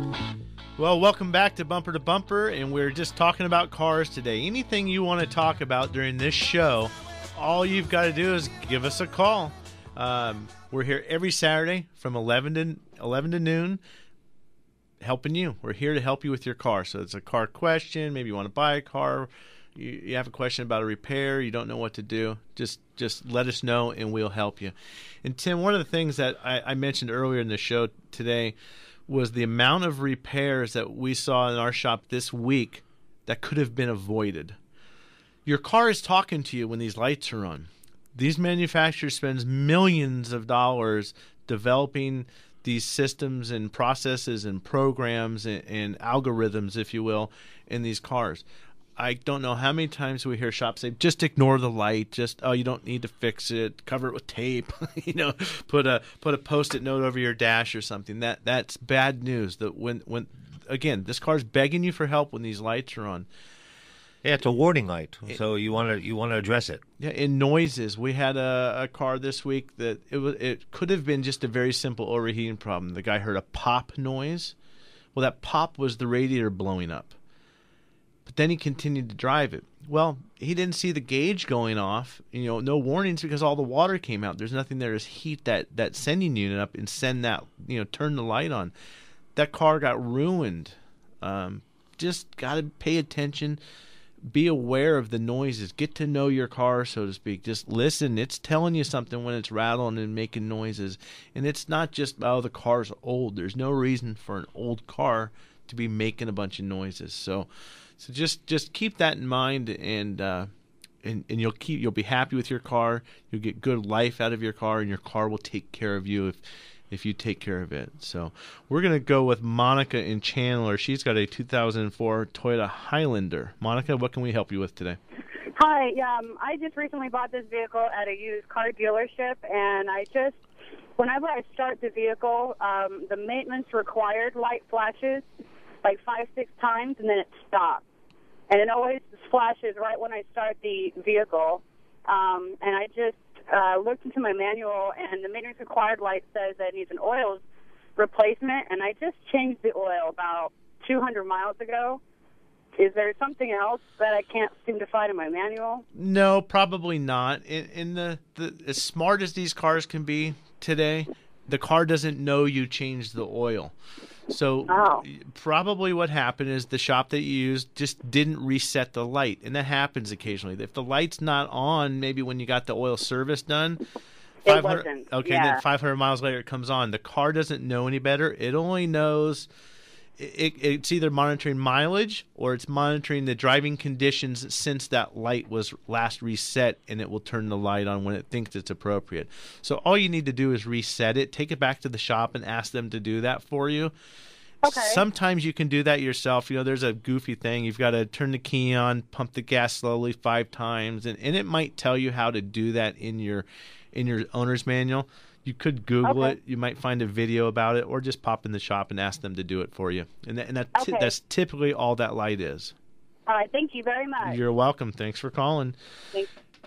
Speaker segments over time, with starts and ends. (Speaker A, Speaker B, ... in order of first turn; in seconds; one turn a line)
Speaker A: 0.8-13.8
Speaker A: 15.0-28.6
Speaker A: 29.1-34.6
Speaker A: 35.5-48.4
Speaker A: 49.0-63.3
Speaker B: 64.2-66.8
Speaker A: 67.0-74.5
Speaker A: 75.2-77.2
Speaker A: 78.3-88.7
Speaker A: 89.4-93.6
Speaker A: 94.3-107.5
Speaker A: 108.0-110.5
Speaker A: 111.0-125.0
Speaker C: 125.5-130.4
Speaker C: 131.0-135.2
Speaker C: 135.8-137.8
Speaker C: 138.5-147.4
Speaker C: 148.0-152.0
Speaker C: 152.8-155.8
Speaker A: 155.9-163.7
Speaker A: 164.3-173.8
Speaker C: 164.7-165.0
Speaker C: 174.4-175.6
Speaker A: 174.5-179.5
Speaker A: 180.2-193.9
Speaker C: 194.6-195.0
Speaker A: 194.7-212.7
Speaker C: 206.0-206.4
Speaker C: 210.8-211.1
Speaker C: 213.3-214.4
Speaker A: 214.2-215.8